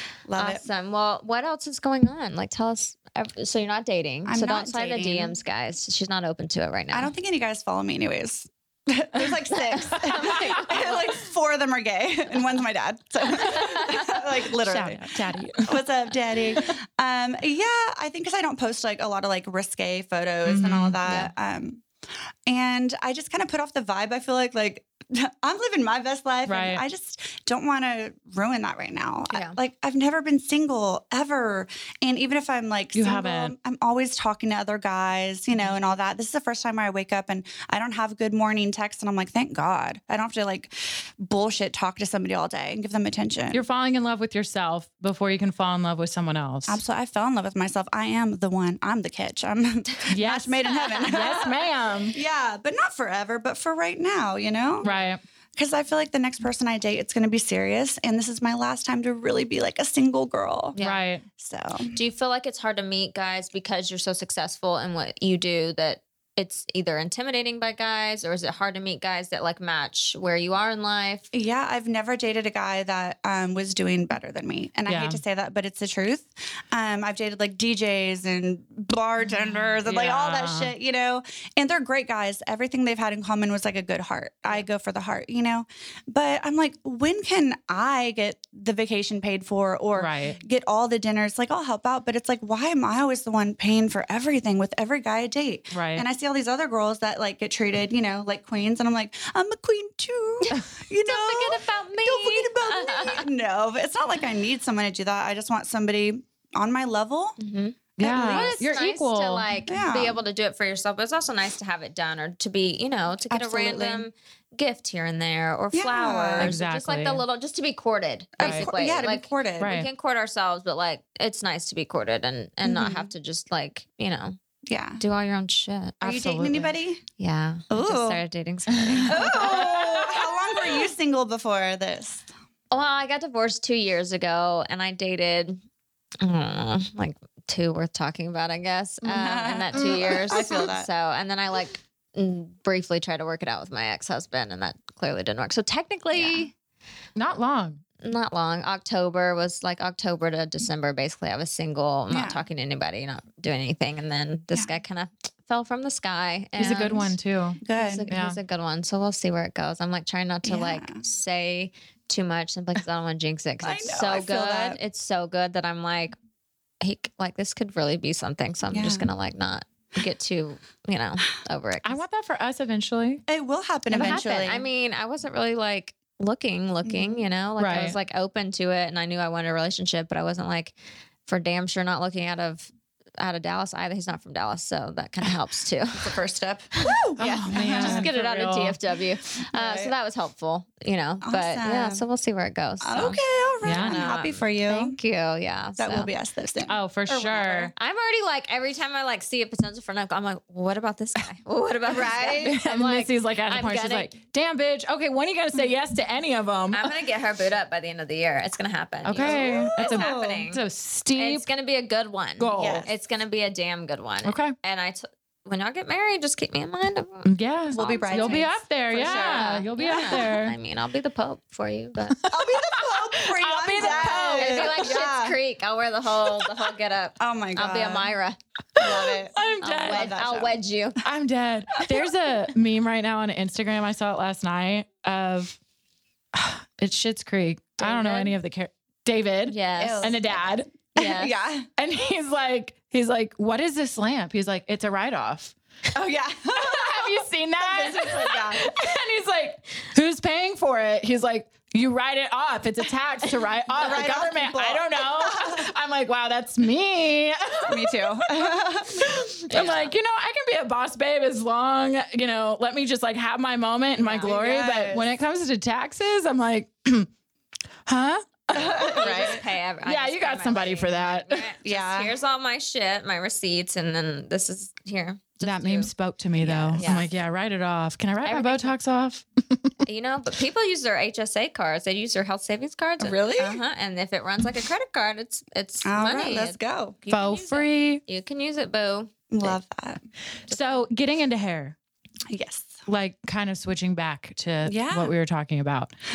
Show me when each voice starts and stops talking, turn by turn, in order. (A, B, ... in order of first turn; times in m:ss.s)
0:00.2-0:00.6 A
0:00.4-0:07.1 B
0:04.2-0:05.4 A
0:06.9-0:21.8 A
0:09.8-0:11.1 B
0:10.0-0:10.5 C
0:14.6-0:15.8 C
0:20.4-0:21.0 C
0:21.0-0:21.3 B
0:22.5-0:43.6 A
0:26.4-0:26.8 C
0:29.3-0:29.6 B
0:32.9-0:33.5 C
0:43.5-0:46.8 C
0:46.6-0:54.9 A
0:50.1-0:52.2 C
0:50.7-0:51.4 B
0:54.8-0:55.2 C
0:55.6-1:00.8 A
1:00.7-1:01.0 B
1:00.8-1:01.2 C
1:01.4-1:02.0 A
1:01.9-1:11.3 B
1:11.3-1:47.4 A
1:14.9-1:15.2 C
1:19.8-1:20.7 C
1:30.0-1:30.4 C
1:35.7-1:36.0 C
1:41.0-1:43.3 B
1:47.4-2:04.4 B
1:48.0-1:49.5 C
1:48.0-1:48.6 A
1:49.7-1:50.2 A
1:53.3-1:54.0 A
1:55.7-1:56.5 A
1:56.4-1:57.2 C
1:58.4-1:59.8 A
1:58.4-1:58.7 C
1:59.6-1:59.9 C
2:02.6-2:03.1 A
2:04.6-2:05.0 A
2:05.0-2:06.2 B
2:06.0-2:06.7 C
2:06.0-2:07.0 A
2:07.2-2:09.7 B
2:07.7-2:08.2 A
2:08.9-2:10.3 C
2:09.0-2:12.3 A
2:12.7-2:15.6 B
2:16.2-2:26.5 B
2:19.0-2:20.9 A
2:19.9-2:20.4 C
2:26.1-2:26.4 A
2:27.2-2:27.8 C
2:28.0-2:37.1 B
2:32.1-2:32.4 A
2:36.6-2:38.4 C
2:37.6-2:38.1 A
2:37.7-2:46.1 B
2:40.4-2:41.0 A
2:43.6-2:44.8 A
2:46.8-2:52.0 B
2:48.7-2:49.1 A
2:51.8-2:53.2 C
2:53.3-2:54.6 A
2:53.9-3:00.7 B
2:53.9-2:54.5 C
2:56.8-2:57.2 A
2:57.6-2:58.0 C
3:01.2-3:06.2 B
3:05.9-3:08.0 A
3:06.8-3:13.2 B
3:07.2-3:08.8 C
3:09.5-3:09.9 A
3:11.2-3:12.0 A
3:12.8-3:15.0 A
3:13.6-3:14.1 C
3:13.7-3:16.1 B
3:15.8-3:17.7 A
3:16.7-3:17.7 C
3:17.8-3:24.1 B
3:21.9-3:22.6 A
3:22.4-3:26.9 C
3:26.7-3:30.6 B
3:29.0-3:31.4 C
3:29.2-3:30.4 A
3:31.1-3:42.2 B
3:32.4-3:32.9 C
3:32.5-3:32.9 A
3:34.2-3:34.5 C
3:37.2-3:40.6 C
3:37.7-3:40.2 A
3:42.3-3:45.0 C
3:42.3-3:45.4 A
3:43.8-3:51.0 B
3:47.2-3:48.1 A
3:48.8-3:50.6 A
3:48.8-3:50.1 C
3:51.0-3:55.6 C
3:56.3-4:00.7 C
3:57.8-3:58.3 B
3:59.5-4:00.1 B
3:59.8-4:01.7 A
4:00.9-4:01.3 B
4:01.8-4:05.5 C
4:05.9-4:08.7 A
4:06.6-4:27.1 C
4:13.7-4:15.7 A
4:17.7-4:19.2 A
4:19.5-4:19.9 B
4:24.0-4:24.3 B
4:24.2-4:25.1 A
4:27.9-4:31.4 C
4:28.5-4:29.4 A
4:28.5-4:35.9 B
4:31.6-4:32.1 A
4:35.4-4:39.7 C
4:36.4-4:36.9 A
4:36.4-4:37.1 B
4:38.2-4:38.8 B
4:39.8-4:49.5 B
4:43.0-4:43.6 A
4:45.8-4:47.0 A
4:47.1-4:48.0 C
4:49.3-4:50.0 A
4:50.5-4:51.8 C
4:50.5-4:50.8 B
4:52.3-4:52.8 A
4:52.9-4:55.9 C
4:54.6-4:55.1 A